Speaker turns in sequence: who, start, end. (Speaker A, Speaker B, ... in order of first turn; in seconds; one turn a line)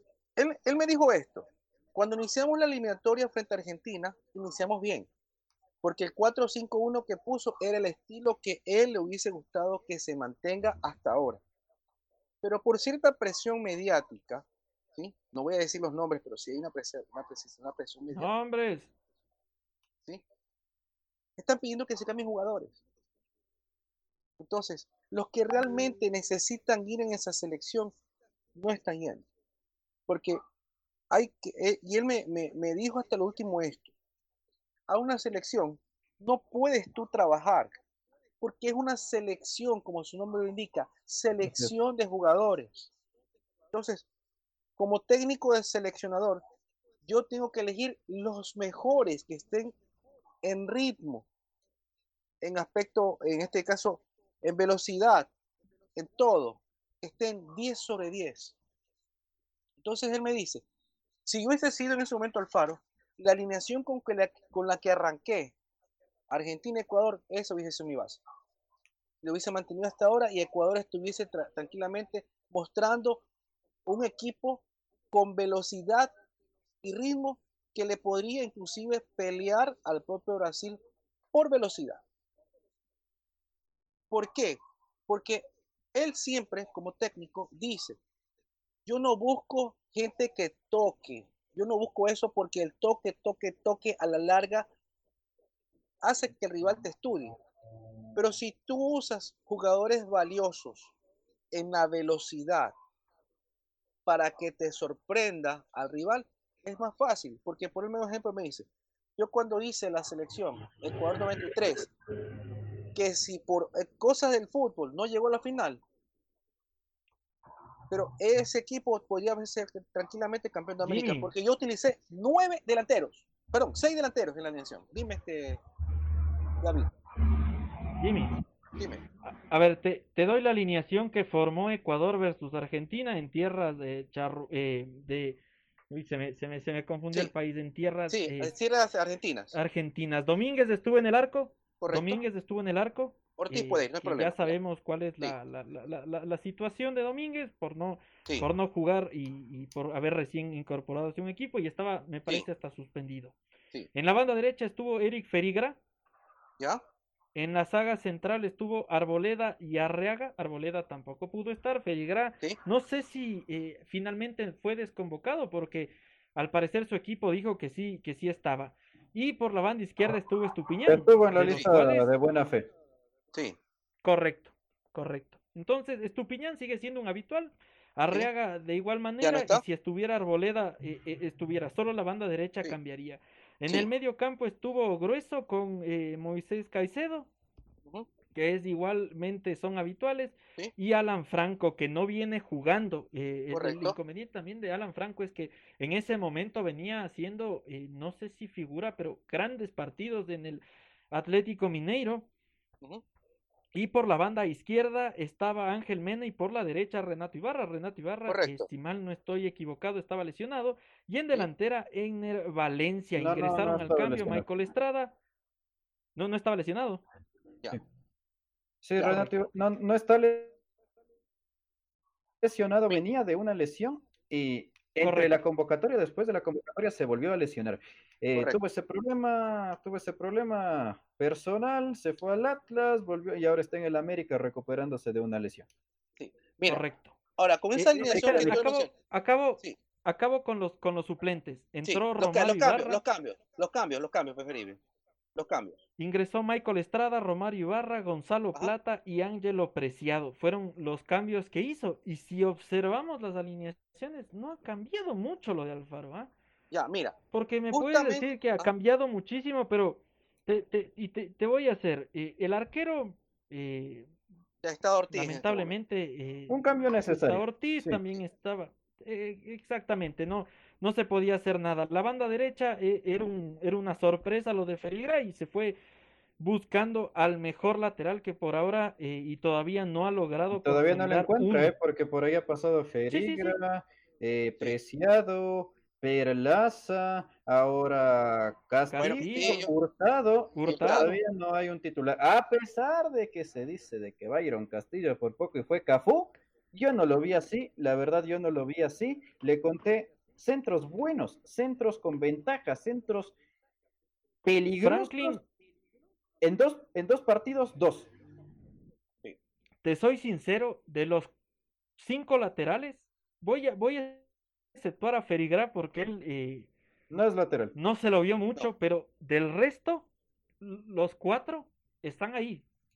Speaker A: 0.4-5.1
Speaker A: 5.8-11.4
Speaker A: 12.4-18.3
Speaker B: 18.1-18.9
Speaker A: 21.4-22.8
Speaker A: 24.4-27.9
Speaker A: 28.6-29.3
Speaker A: 30.1-30.4
Speaker A: 31.1-33.9
Speaker A: 34.9-37.7
Speaker A: 38.4-42.9
Speaker C: 41.4-41.7
Speaker A: 43.7-44.1
Speaker A: 44.8-46.4
Speaker A: 47.0-49.8
Speaker A: 50.4-51.3
Speaker A: 52.4-55.3
Speaker A: 56.0-58.5
Speaker A: 59.8-60.6
Speaker A: 61.3-65.5
Speaker A: 66.3-68.2
Speaker A: 69.2-73.2
Speaker A: 73.9-76.1
Speaker A: 76.8-80.8
Speaker A: 81.3-82.0
Speaker A: 84.1-88.0
Speaker A: 88.9-94.7
Speaker A: 96.0-97.4
Speaker A: 98.1-100.9
Speaker A: 101.5-102.7
Speaker A: 104.1-111.9
Speaker A: 112.9-115.8
Speaker A: 117.9-125.6
Speaker B: 120.8-121.3
Speaker A: 126.6-126.9
Speaker B: 128.0-128.4
Speaker A: 128.8-129.0
Speaker B: 129.3-135.4
Speaker B: 135.9-138.5
Speaker A: 138.1-139.6
Speaker B: 139.5-153.4
Speaker A: 141.8-142.2
Speaker A: 143.4-144.6
Speaker B: 153.9-155.8
Speaker B: 157.3-172.1
Speaker C: 170.9-172.7
Speaker A: 173.3-173.6
Speaker B: 174.0-187.3
Speaker A: 179.2-179.6
Speaker B: 188.3-202.3
Speaker A: 193.5-194.0
Speaker B: 203.7-215.1
Speaker A: 208.3-208.7
Speaker C: 213.2-214.5
Speaker B: 216.2-217.0
Speaker C: 218.8-220.5
Speaker A: 219.0-219.3
Speaker C: 222.4-235.7
Speaker B: 225.0-225.4
Speaker A: 236.2-236.8
Speaker B: 236.7-237.2
Speaker A: 237.4-238.9
Speaker B: 237.8-243.0
Speaker C: 238.1-238.6
Speaker A: 241.9-244.8
Speaker A: 245.3-245.8
Speaker B: 246.0-256.3
Speaker A: 256.7-257.2
Speaker B: 257.3-264.1
Speaker A: 257.7-258.7
Speaker A: 264.6-265.7
Speaker B: 265.1-275.8
Speaker C: 266.5-268.0
Speaker B: 276.4-281.7
Speaker C: 280.5-303.4
Speaker B: 283.1-283.6
Speaker B: 288.9-289.6
Speaker A: 289.0-289.7
Speaker B: 290.6-291.2
Speaker A: 290.6-291.1
Speaker C: 304.4-305.4
Speaker B: 304.8-305.4
Speaker C: 306.4-308.1
Speaker B: 309.8-311.3
Speaker B: 312.0-316.7
Speaker C: 317.1-317.8
Speaker B: 317.8-320.1
Speaker B: 320.6-322.6